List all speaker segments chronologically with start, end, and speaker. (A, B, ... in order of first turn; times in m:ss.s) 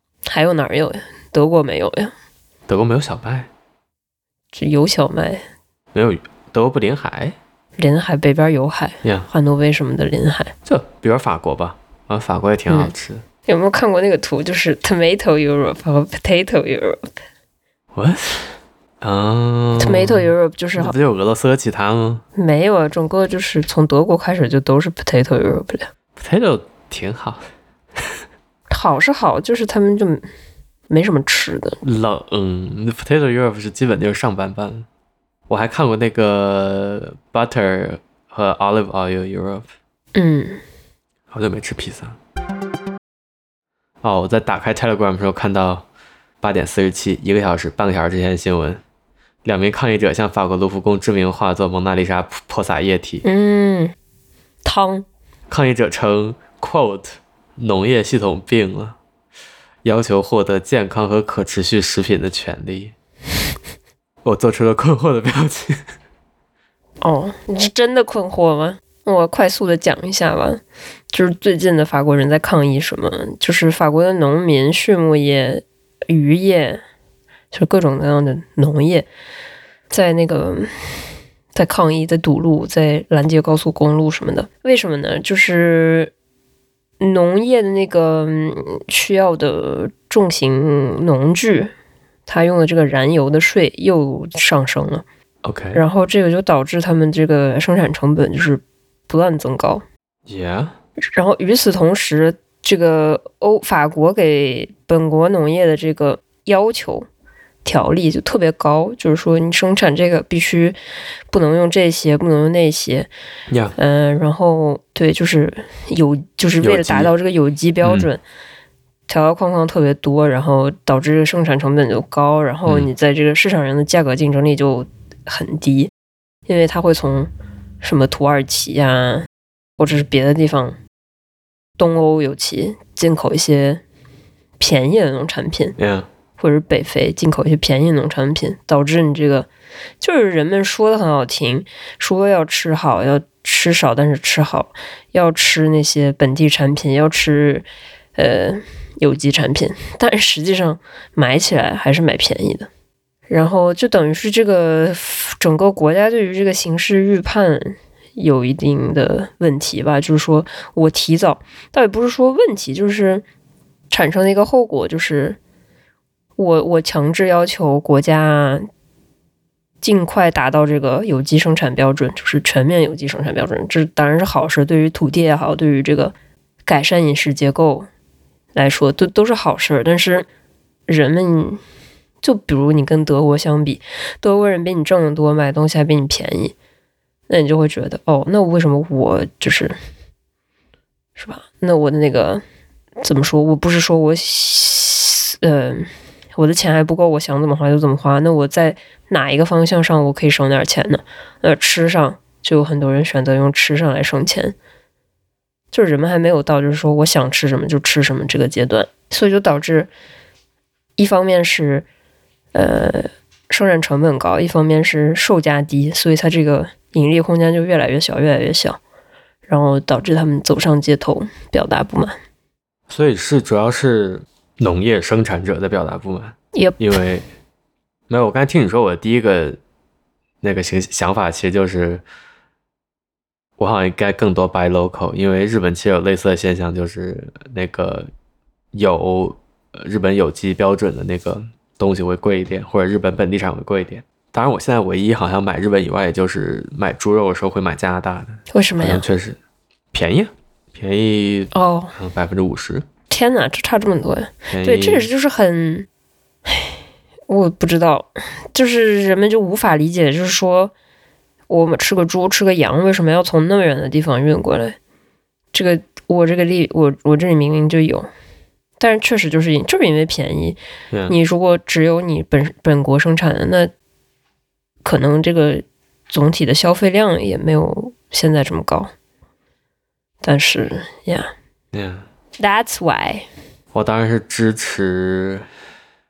0:00.3-0:02.1 A
0:02.7-0:03.5 B
0:04.5-0:05.4 A
0:05.9-0:07.4 B
0:07.8-0:10.5 A
0:09.0-0:09.3 B
0:10.7-0:13.2 B
0:12.7-0:12.9 A
0:13.5-0:17.1 A
0:18.0-0:22.2 B
0:19.8-0:21.0 A
0:22.4-0:25.9 A
0:26.2-0:27.5 B
0:28.7-0:30.3 A
0:30.9-0:31.8 A
0:31.8-0:34.9 B
0:35.5-0:39.7 B
0:40.2-0:40.6 A
0:41.3-0:42.2 B
0:44.0-0:45.9 B
0:46.4-0:48.8 B
0:49.4-0:53.2 B
0:53.2-0:53.9 A
0:54.6-0:55.1 A
0:55.5-0:59.0 B
0:59.8-1:02.9 B
1:04.2-1:05.8 B
1:07.0-1:16.8 A
1:17.5-1:19.1 A
1:19.9-1:20.9 A
1:21.6-1:26.1 A
1:27.0-1:31.7 A
1:32.3-1:35.0 A
1:35.4-1:35.8 B
1:35.7-1:39.8 A
1:40.3-1:40.8 B
1:41.1-1:47.1 A
1:47.6-1:50.8 A
1:51.3-1:53.1 A
1:53.5-1:53.8 B
1:53.8-1:58.2 A
1:56.6-1:57.1 B
1:57.8-1:58.1 B
1:59.1-2:05.9 A
2:06.5-2:07.3 A
2:07.8-2:09.3 A
2:09.8-2:10.8 A
2:11.8-2:13.8 A
2:14.6-2:15.8 A
2:15.8-2:16.1 B
2:16.4-2:19.5 A
2:20.0-2:32.7 A
2:33.3-2:43.2 A
2:43.9-2:45.4 A
2:46.4-2:48.6 A
2:49.8-2:56.1 A
2:56.7-2:57.9 A
2:58.6-3:00.3 A
3:00.9-3:01.6 A
3:02.2-3:06.5 A
3:07.3-3:09.8 A
3:11.2-3:12.4 A
3:13.0-3:24.6 A
3:25.7-3:29.9 A
3:31.0-3:31.9 A
3:32.5-3:38.8 A
3:39.5-3:42.2 A
3:42.9-3:47.3 B
3:46.6-3:46.8 A
3:48.1-3:49.6 B
3:50.4-3:52.0 B
3:53.6-3:58.1 B
3:58.7-4:09.4 B
4:08.5-4:09.0 A
4:09.9-4:12.8 B
4:11.5-4:11.9 A
4:13.1-4:15.9 A
4:14.5-4:15.1 B
4:17.3-4:20.7 A
4:21.5-4:24.8 A
4:25.5-4:28.1 A
4:28.8-4:33.7 A
4:34.8-4:38.9 A
4:40.2-4:41.3 A
4:41.7-4:42.1 B
4:42.4-4:43.2 A
4:43.7-4:45.5 B